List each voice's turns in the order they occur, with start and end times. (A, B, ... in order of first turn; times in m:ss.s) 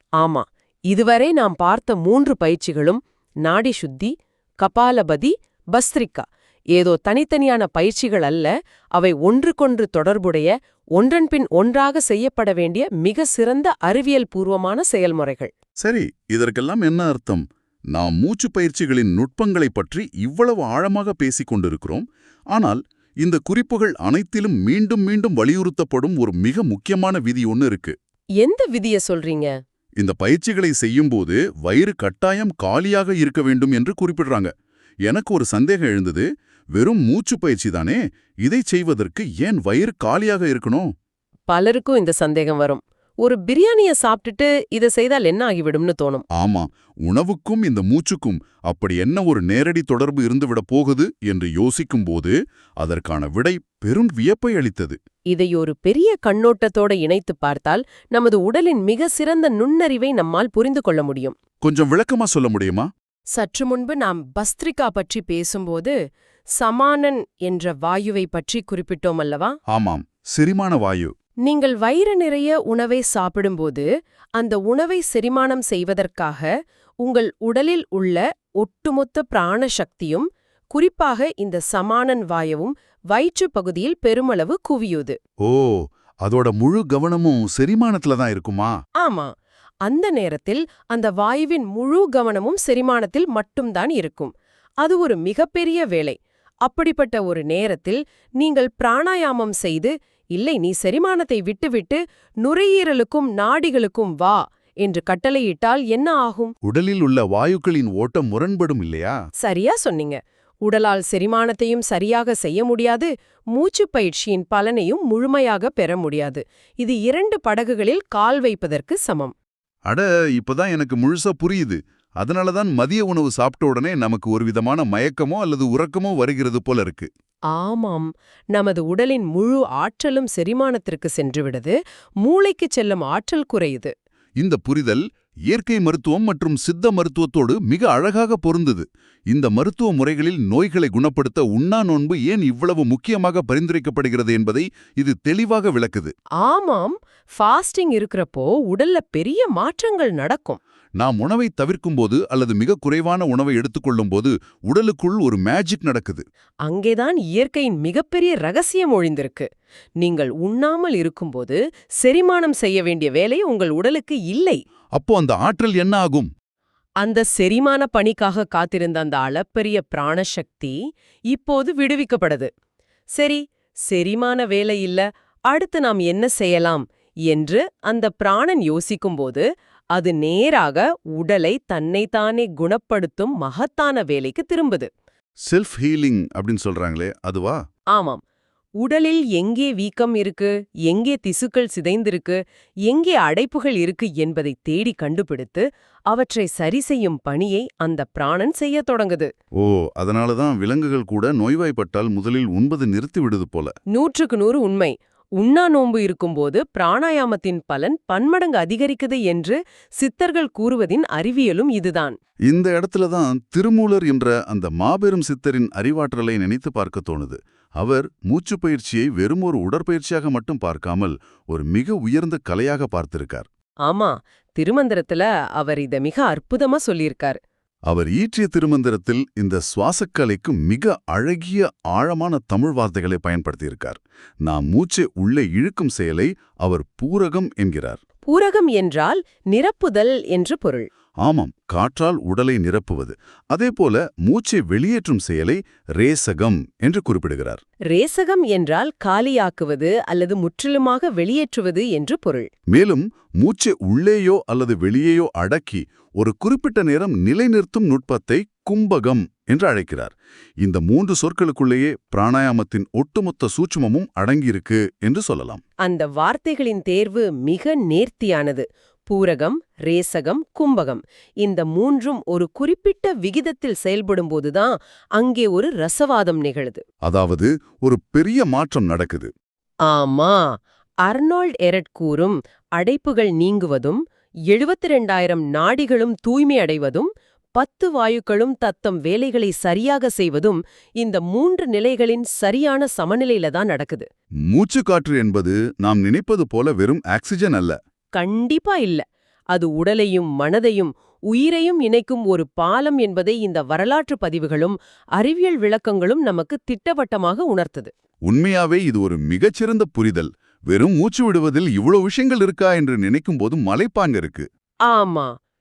0:00.2-0:15.5 A
0:15.8-0:27.9 B
0:28.4-0:29.5 A
0:30.0-0:34.5 B
0:35.1-0:40.9 B
0:41.5-0:46.2 A
0:46.3-0:55.0 B
0:55.3-1:01.3 A
1:01.6-1:02.9 B
1:03.3-1:05.9 A
1:06.6-1:09.6 A
1:09.7-1:11.1 B
1:11.4-1:13.8 A
1:14.4-1:16.5 A
1:17.0-1:25.2 A
1:25.4-1:28.7 B
1:29.0-1:29.3 A
1:29.8-1:34.3 A
1:34.8-1:46.5 A
1:46.6-1:49.1 B
1:49.4-1:59.3 A
1:59.9-2:07.1 B
2:07.5-2:13.9 A
2:14.4-2:26.1 B
2:26.4-2:30.6 A
2:31.0-2:36.2 B
2:36.6-2:39.5 A
2:40.0-2:44.6 A
2:45.0-2:46.3 B
2:47.0-2:50.8 A
2:51.3-2:52.5 A
2:53.2-2:59.4 A
2:59.9-3:04.9 A
3:05.5-3:07.6 B
3:07.9-3:08.2 A
3:08.8-3:19.3 A
3:19.6-3:23.7 B
3:23.9-3:32.2 A
3:32.5-3:43.4 B
3:43.8-3:47.4 A
3:47.9-3:58.0 B
3:58.3-4:00.9 A
4:01.2-4:07.6 B
4:07.9-4:12.5 A
4:12.7-4:25.6 B
4:25.8-4:36.8 A
4:37.0-4:39.3 B
4:39.9-4:40.4 A
4:41.0-4:54.0 A
4:54.5-4:57.8 B
4:58.2-5:07.9 A
5:08.3-5:14.4 B
5:14.9-5:15.3 A